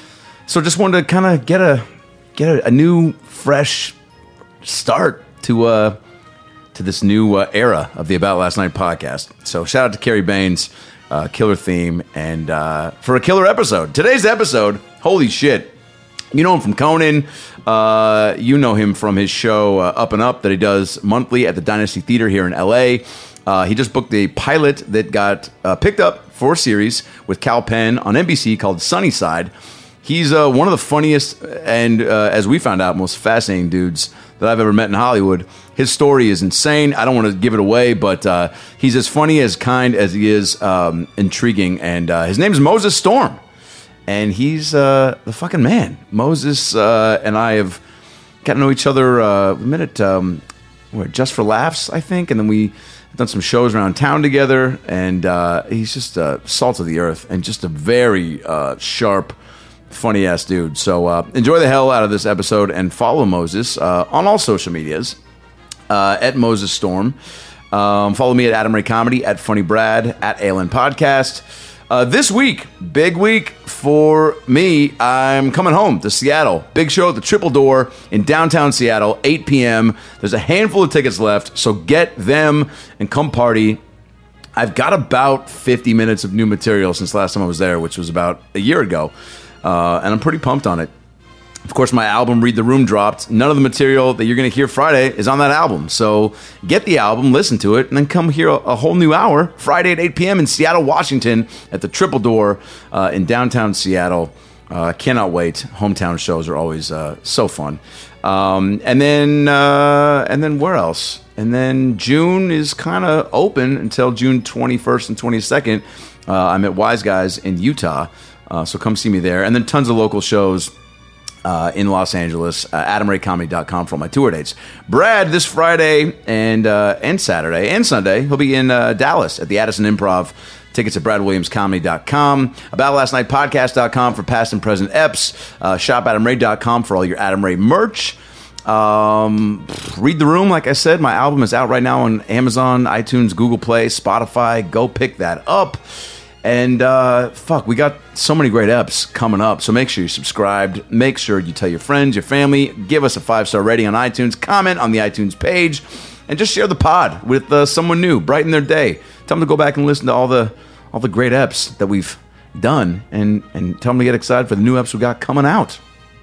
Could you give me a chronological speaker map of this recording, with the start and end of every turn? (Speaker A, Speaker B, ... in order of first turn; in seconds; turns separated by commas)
Speaker A: 0.5-4.0, Speaker A: 4.6-6.0, Speaker A: 6.7-15.8, Speaker A: 16.3-29.5, Speaker A: 30.0-43.4, Speaker A: 44.1-47.8, Speaker A: 48.4-59.4, Speaker A: 59.9-65.2, Speaker A: 65.9-67.2, Speaker A: 67.7-83.8, Speaker A: 84.6-89.1, Speaker A: 89.6-90.9, Speaker A: 91.7-120.7, Speaker A: 121.4-145.8, Speaker A: 146.4-165.8